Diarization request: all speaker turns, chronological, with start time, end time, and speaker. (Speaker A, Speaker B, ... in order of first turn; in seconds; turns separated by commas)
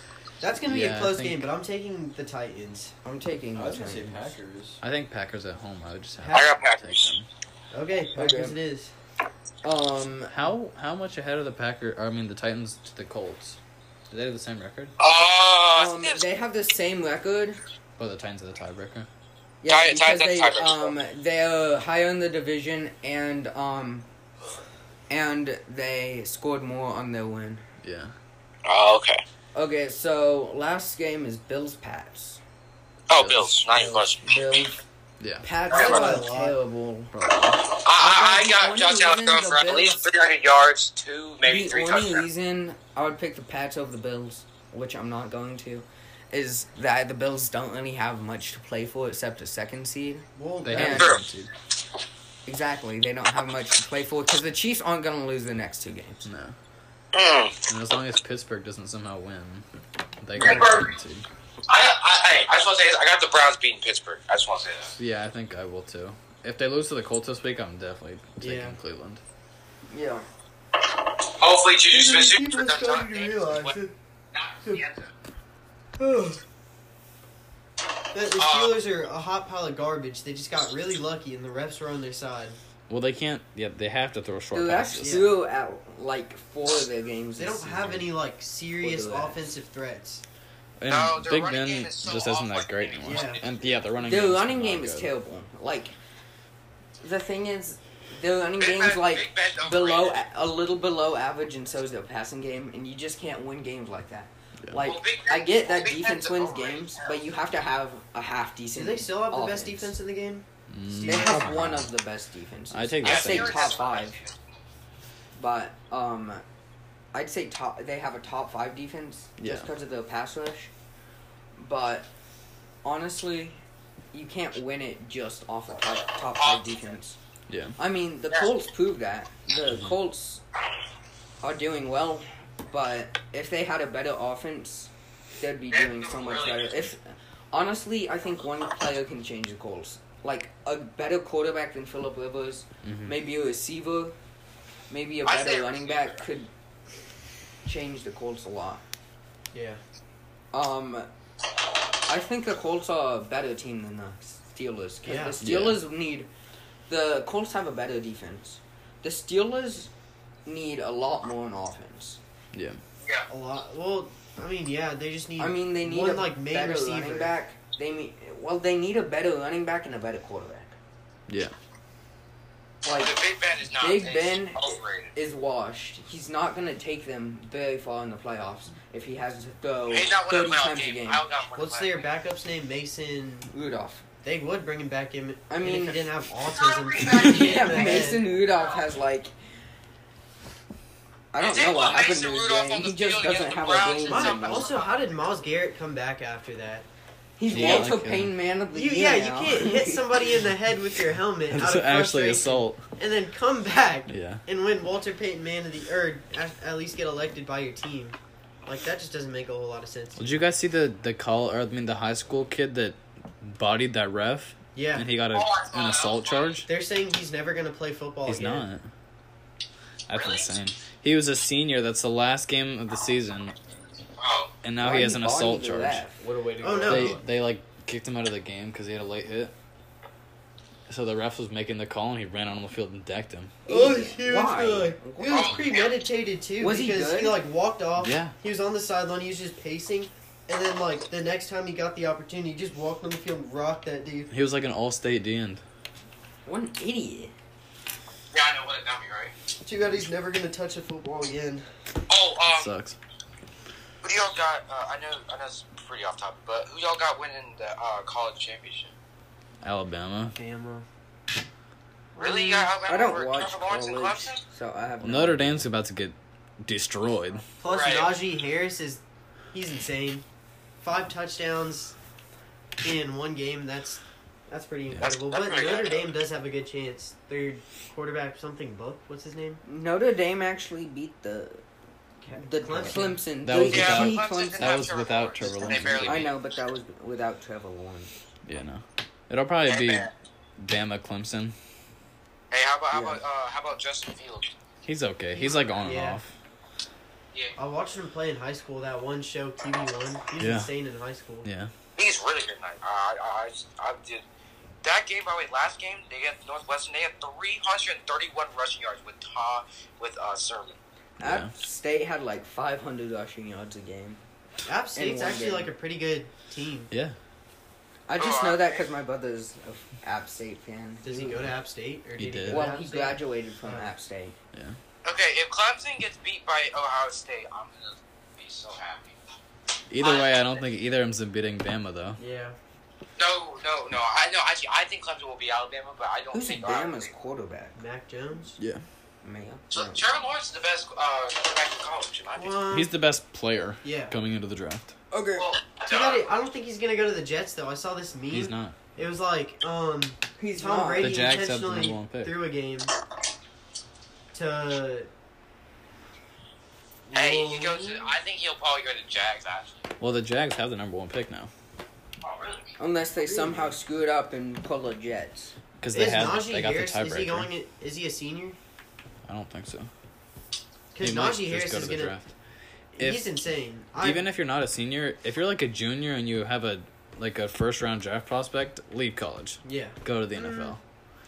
Speaker A: 0.4-3.0, Speaker B: 0.7-1.5, Speaker C: 3.0-4.3, Speaker D: 3.5-4.8, Speaker B: 4.8-7.3, Speaker A: 6.2-6.6, Speaker E: 6.3-7.1, Speaker A: 7.7-8.9, Speaker C: 8.2-8.6, Speaker C: 9.6-10.3, Speaker B: 10.3-13.6, Speaker B: 14.1-14.9, Speaker E: 15.0-16.3, Speaker C: 15.8-17.6, Speaker B: 18.0-19.1, Speaker C: 19.6-24.1, Speaker E: 19.7-21.0, Speaker C: 25.1-27.6, Speaker B: 27.8-28.1, Speaker E: 28.6-29.2, Speaker C: 29.6-32.4, Speaker E: 33.1-34.3, Speaker B: 33.1-33.6, Speaker A: 33.7-34.1, Speaker C: 34.2-34.8, Speaker B: 35.2-35.5, Speaker C: 35.4-37.1, Speaker A: 35.7-36.6, Speaker E: 35.7-36.1, Speaker B: 37.1-37.6, Speaker E: 37.8-42.2, Speaker C: 38.0-40.0, Speaker C: 41.4-51.2, Speaker A: 50.4-51.1, Speaker B: 50.6-51.5, Speaker E: 50.8-51.2, Speaker C: 52.5-56.2, Speaker B: 56.2-56.5, Speaker E: 57.1-57.6, Speaker B: 57.7-59.6, Speaker B: 60.2-61.3, Speaker E: 60.4-60.9, Speaker E: 61.7-65.0, Speaker B: 65.0-69.2, Speaker A: 68.4-68.8, Speaker C: 69.9-70.3, Speaker E: 71.4-73.7, Speaker A: 71.9-73.9, Speaker E: 74.3-75.1, Speaker A: 76.0-76.4, Speaker A: 78.1-82.6, Speaker E: 78.4-78.8, Speaker B: 82.9-85.2, Speaker C: 84.5-88.1, Speaker A: 85.0-85.4, Speaker A: 87.4-90.2, Speaker C: 88.8-89.5, Speaker B: 90.8-95.1, Speaker E: 90.9-93.6, Speaker A: 93.0-93.4, Speaker C: 94.0-96.0, Speaker C: 97.0-110.0, Speaker E: 98.6-100.2, Speaker B: 104.6-104.9, Speaker E: 104.8-107.2, Speaker A: 108.7-111.5, Speaker B: 110.7-111.9, Speaker C: 111.0-114.2, Speaker B: 112.7-113.7, Speaker E: 113.0-114.3, Speaker C: 115.3-116.4, Speaker C: 117.1-120.7, Speaker B: 119.4-119.7, Speaker C: 121.6-122.1, Speaker C: 122.8-123.6, Speaker C: 124.1-127.2, Speaker E: 126.4-126.8, Speaker B: 127.5-127.8, Speaker C: 127.8-130.4, Speaker B: 129.7-130.0, Speaker C: 131.4-144.2, Speaker E: 135.7-136.7, Speaker B: 142.8-143.2, Speaker C: 144.9-146.5, Speaker E: 145.2-146.2, Speaker C: 147.7-148.8, Speaker A: 149.5-149.8, Speaker C: 150.5-151.1, Speaker C: 152.1-156.3, Speaker A: 155.0-155.4, Speaker B: 155.4-155.8, Speaker C: 156.9-159.9, Speaker C: 160.4-162.2, Speaker B: 162.5-162.8, Speaker A: 163.3-167.4, Speaker C: 165.4-170.8, Speaker B: 171.3-171.5, Speaker C: 172.8-173.2, Speaker E: 172.9-175.1, Speaker C: 173.8-181.2, Speaker E: 179.9-182.1, Speaker A: 181.6-183.5, Speaker C: 183.5-184.0, Speaker A: 184.2-188.3, Speaker C: 185.5-186.1, Speaker E: 186.5-188.9, Speaker C: 187.0-189.3, Speaker C: 191.3-194.9, Speaker E: 191.4-194.9, Speaker A: 194.1-196.9, Speaker C: 197.4-200.3, Speaker B: 197.5-198.3, Speaker A: 197.5-197.9, Speaker A: 198.7-210.4, Speaker B: 201.5-202.8, Speaker B: 204.1-204.4, Speaker B: 210.2-216.7, Speaker A: 214.8-215.1, Speaker E: 215.3-216.6, Speaker A: 216.7-218.7, Speaker B: 218.3-218.9, Speaker B: 220.1-223.6, Speaker E: 220.1-220.5, Speaker E: 224.2-224.5, Speaker B: 224.6-226.0, Speaker C: 224.8-226.2, Speaker D: 226.2-227.2, Speaker A: 226.6-227.2, Speaker B: 226.9-229.5, Speaker B: 230.9-233.5, Speaker C: 233.7-235.6, Speaker A: 233.7-244.3, Speaker E: 235.3-236.0, Speaker C: 236.6-237.4, Speaker B: 238.0-238.3, Speaker B: 244.3-245.6, Speaker C: 246.5-247.3, Speaker E: 248.3-249.3, Speaker A: 249.7-251.7, Speaker E: 252.1-252.7, Speaker B: 252.5-253.0, Speaker E: 254.0-258.9, Speaker B: 259.6-260.4, Speaker A: 260.3-260.9, Speaker A: 262.1-262.7, Speaker E: 262.2-264.4, Speaker C: 262.9-265.7, Speaker B: 265.0-267.4, Speaker A: 267.6-270.2, Speaker E: 267.7-268.1, Speaker A: 270.8-272.0, Speaker A: 272.8-279.6, Speaker E: 275.0-276.1, Speaker C: 279.7-281.6, Speaker A: 282.2-283.3, Speaker C: 282.4-284.8, Speaker B: 283.4-286.4, Speaker E: 283.6-286.4, Speaker C: 285.4-288.1, Speaker B: 288.5-291.6, Speaker E: 289.7-290.1, Speaker E: 292.5-294.5, Speaker C: 292.9-293.2, Speaker B: 294.9-296.4, Speaker A: 295.4-296.2, Speaker A: 297.6-301.5, Speaker B: 300.4-300.7, Speaker B: 301.4-301.7, Speaker E: 302.0-304.2, Speaker E: 304.8-310.8, Speaker C: 311.2-314.2, Speaker B: 311.2-311.5, Speaker A: 314.6-316.9, Speaker C: 314.9-315.7, Speaker C: 318.1-321.5, Speaker E: 318.2-318.9, Speaker A: 321.0-323.9, Speaker B: 322.2-322.7, Speaker C: 322.5-324.4, Speaker E: 325.1-329.2, Speaker B: 329.9-332.2, Speaker E: 330.0-330.7, Speaker A: 332.2-332.6, Speaker E: 333.2-337.1, Speaker C: 336.3-337.8, Speaker A: 337.8-338.6, Speaker B: 338.6-338.8, Speaker C: 339.2-340.0, Speaker E: 339.7-342.6, Speaker A: 342.4-342.9, Speaker B: 342.7-344.9, Speaker A: 343.8-344.1, Speaker C: 345.1-345.5, Speaker E: 345.4-346.3, Speaker A: 345.9-352.9, Speaker B: 348.3-348.8, Speaker C: 350.4-351.2, Speaker B: 351.0-352.4, Speaker A: 354.3-355.1, Speaker A: 357.1-358.1, Speaker E: 357.1-359.8, Speaker B: 360.0-361.5, Speaker E: 362.2-362.7, Speaker C: 362.8-365.5, Speaker A: 363.2-363.8, Speaker B: 365.8-367.5, Speaker A: 365.9-368.6, Speaker B: 369.3-369.9, Speaker A: 370.9-372.1, Speaker B: 371.0-372.3, Speaker A: 373.0-374.2, Speaker B: 373.0-373.4, Speaker B: 374.0-380.8, Speaker A: 379.6-380.8